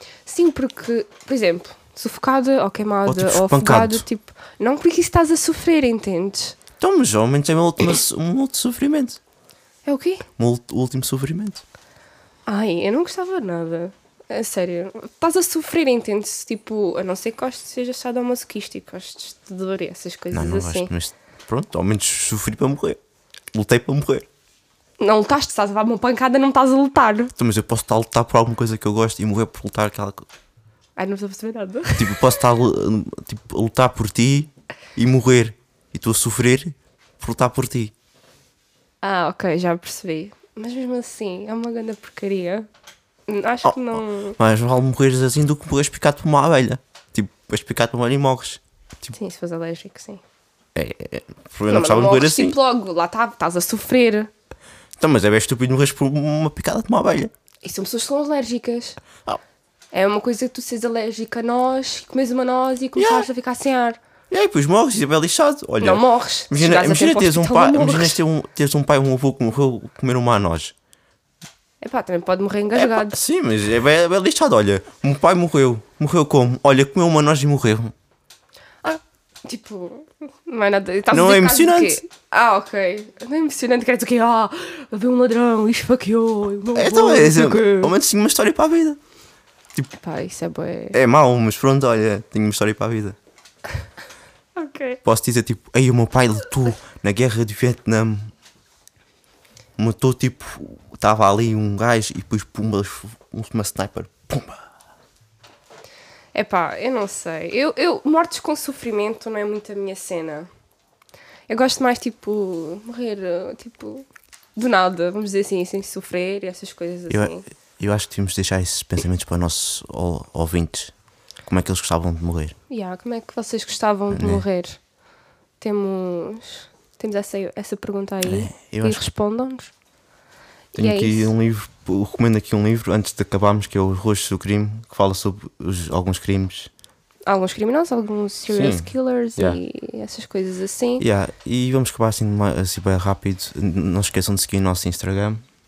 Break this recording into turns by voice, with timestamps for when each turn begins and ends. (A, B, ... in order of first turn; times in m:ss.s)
0:00.2-0:06.6 A
0:03.0-0:04.0 B
0:06.8-0:09.2 B
0:09.8-0:10.2 A
0:10.4-0:11.6 B
0:12.5-0:20.9 A
0:20.3-0:23.0 B
0:23.5-0:24.2 B
0:25.0-0:27.3 A
0:27.4-0:30.2 B
0:31.0-0:32.4 A
0:32.0-0:37.9 B
0:39.0-0:42.7 A
0:43.3-0:44.4 A
0:43.6-0:49.1 B
0:49.1-0:50.2 A
0:50.7-0:52.6 B
0:51.7-0:54.3 A
0:55.0-0:57.3 B
0:57.6-0:59.0 A
0:59.9-1:04.0 A
1:02.9-1:03.3 B
1:04.3-1:10.7 B
1:05.8-1:08.2 A
1:11.8-1:13.2 A
1:12.7-1:17.9 B
1:18.8-1:27.9 A
1:21.1-1:22.0 B
1:26.7-1:29.0 B
1:30.0-1:31.0 A
1:30.9-1:33.2 B
1:34.6-1:35.0 A
1:35.0-1:38.3 B
1:39.8-1:44.6 B
1:46.3-1:50.5 A
1:51.5-1:57.4 A
1:57.1-2:00.9 B
2:01.4-2:02.5 B
2:02.7-2:04.8 A
2:04.1-2:04.4 B
2:05.6-2:09.7 A
2:08.2-2:09.0 B
2:10.7-2:11.3 A
2:10.7-2:16.7 B
2:17.2-2:21.0 A
2:18.5-2:19.6 B
2:21.0-2:25.4 B